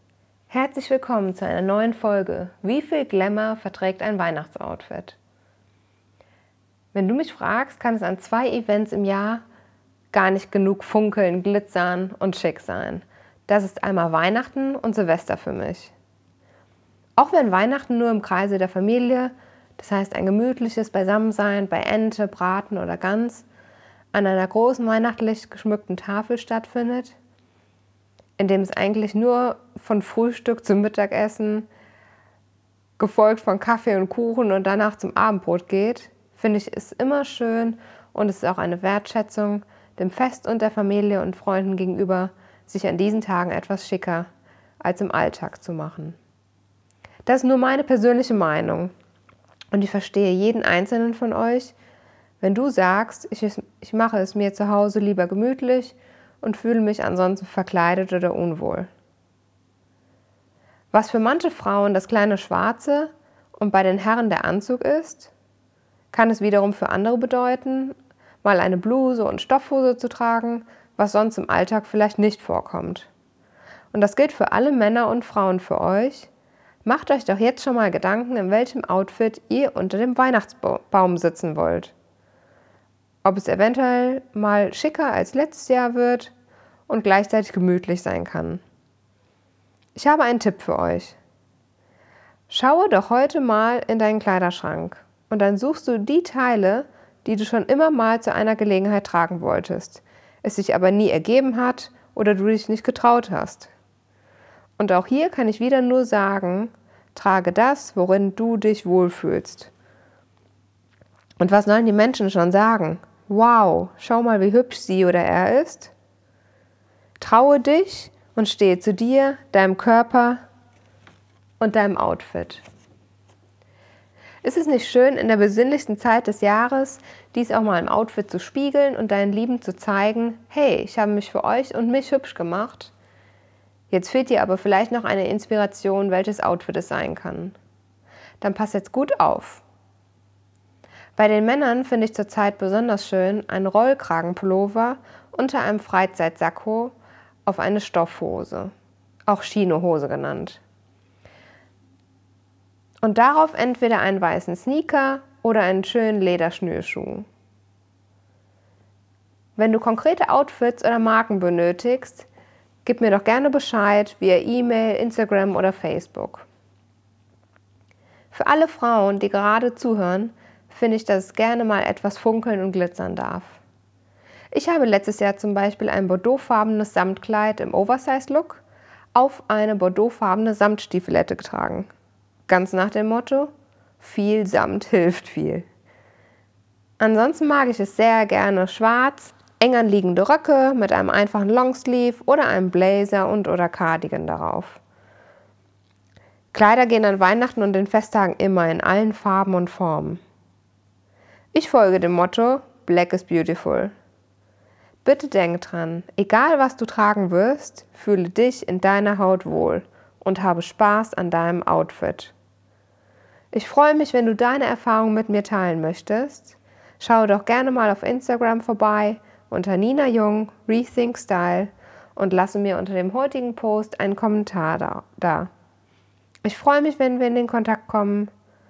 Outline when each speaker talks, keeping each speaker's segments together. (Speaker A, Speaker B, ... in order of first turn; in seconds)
Speaker A: 0.5-5.2, 6.9-9.4, 10.1-15.9, 17.2-23.5, 24.1-27.2, 28.4-31.7, 33.0-44.3, 44.8-46.2, 47.3-48.9, 49.7-51.8, 52.4-58.9, 60.9-65.3, 66.1-73.1, 73.9-76.3, 76.8-81.9, 83.2-86.3, 86.9-88.6, 90.0-91.2, 92.5-103.7, 104.8-109.7, 111.4-115.9, 117.2-120.4, 121.6-122.7, 124.4-132.9, 133.9-137.6, 138.4-139.6, 141.2-148.7, 149.3-150.6, 153.0-157.3, 159.6-162.3, 162.8-166.5, 168.3-173.6, 174.5-178.6, 179.1-181.9, 182.5-185.7, 187.0-194.8, 196.5-200.2, 201.5-203.9, 205.0-212.3, 213.5-225.5, 226.4-228.3